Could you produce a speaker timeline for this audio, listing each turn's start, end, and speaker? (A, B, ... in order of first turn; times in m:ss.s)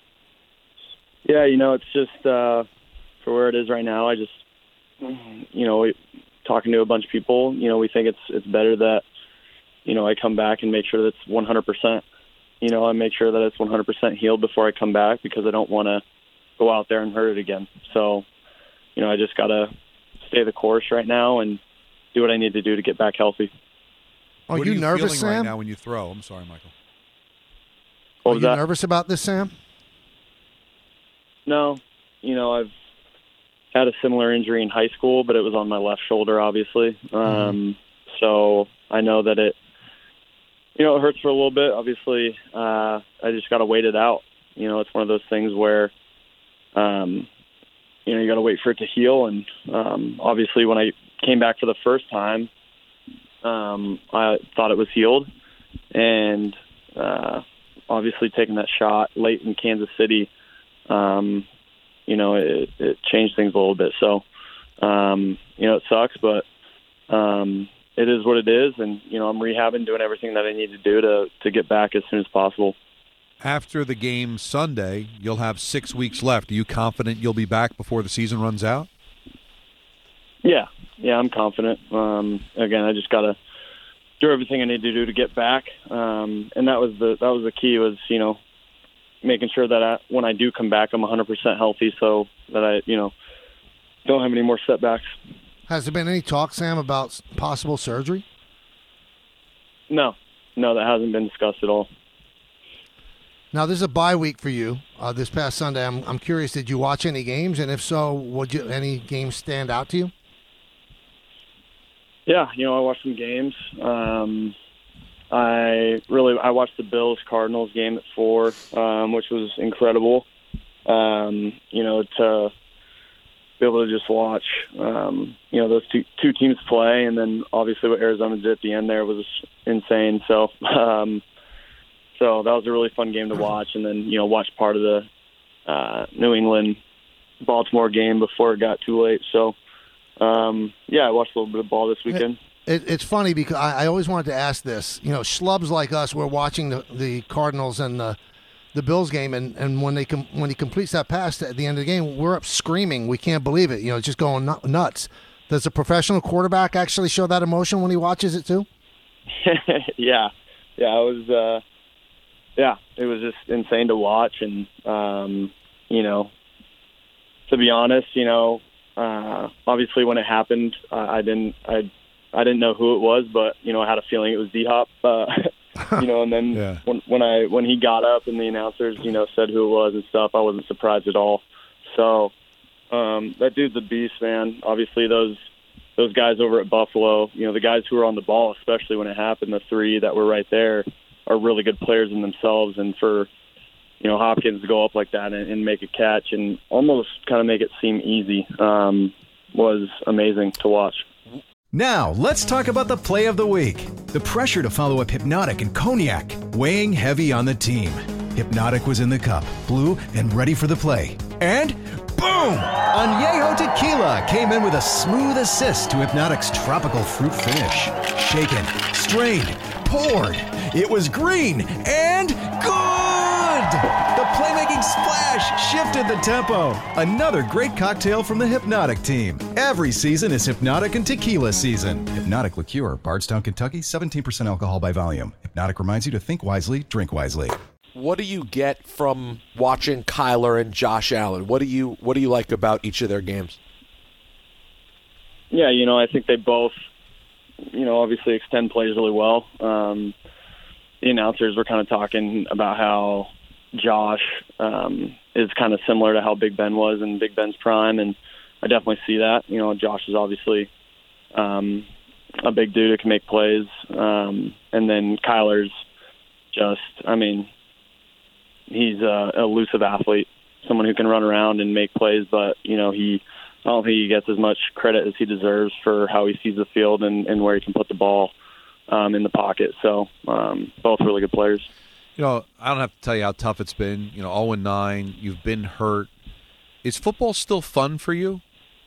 0:01.2-0:02.7 A
0:03.2-0:04.4 A
0:05.0-0:09.0 A
0:09.8-0:12.0 A
0:12.6-0:16.0 A
0:16.6-0:18.2 A
0:19.0-0:19.7 A
0:20.2-0:21.6 A
0:22.1-0:23.5 A
0:24.5-0:25.5 B
0:24.5-0:26.7 C
0:28.2-0:28.6 A
0:28.3-0:29.5 B
0:31.4-0:32.7 A
0:33.7-0:39.6 A
0:37.3-0:37.6 B
0:40.8-0:45.9 A
0:46.7-0:47.3 A
0:48.1-0:52.5 A
0:53.4-0:55.3 A
0:55.9-1:00.3 A
1:00.9-1:01.5 A
1:02.1-1:04.2 A
1:04.8-1:06.5 A
1:07.1-1:12.8 A
1:13.4-1:18.9 C
1:20.4-1:23.4 A
1:24.2-1:28.4 A
1:29.2-1:33.1 A
1:34.0-1:35.1 A
1:35.7-1:38.2 B
1:39.9-1:41.9 A
1:43.5-1:50.1 B
1:52.3-1:54.6 A
1:55.3-2:00.3 A
2:00.9-2:02.5 A
2:03.6-2:11.2 A
2:12.2-2:15.1 A
2:15.7-2:16.8 A
2:17.4-2:19.6 A
2:20.2-2:22.4 A
2:22.1-2:28.2 B
2:28.7-2:38.7 B
2:39.4-2:41.6 A
2:42.6-2:46.3 A
2:47.5-3:02.3 A
2:56.5-2:56.8 C
3:02.9-3:05.4 A
3:06.0-3:13.3 A
3:14.0-3:21.1 A
3:21.7-3:57.6 D
3:57.9-4:03.6 E
4:05.5-4:06.7 A
4:07.7-4:10.2 A
4:11.0-4:20.7 A
4:21.3-4:21.9 A
4:22.4-4:25.7 A
4:26.5-4:27.5 A
4:28.7-4:38.3 A
4:38.9-4:41.7 A
4:42.2-4:46.1 C
4:46.8-4:48.4 C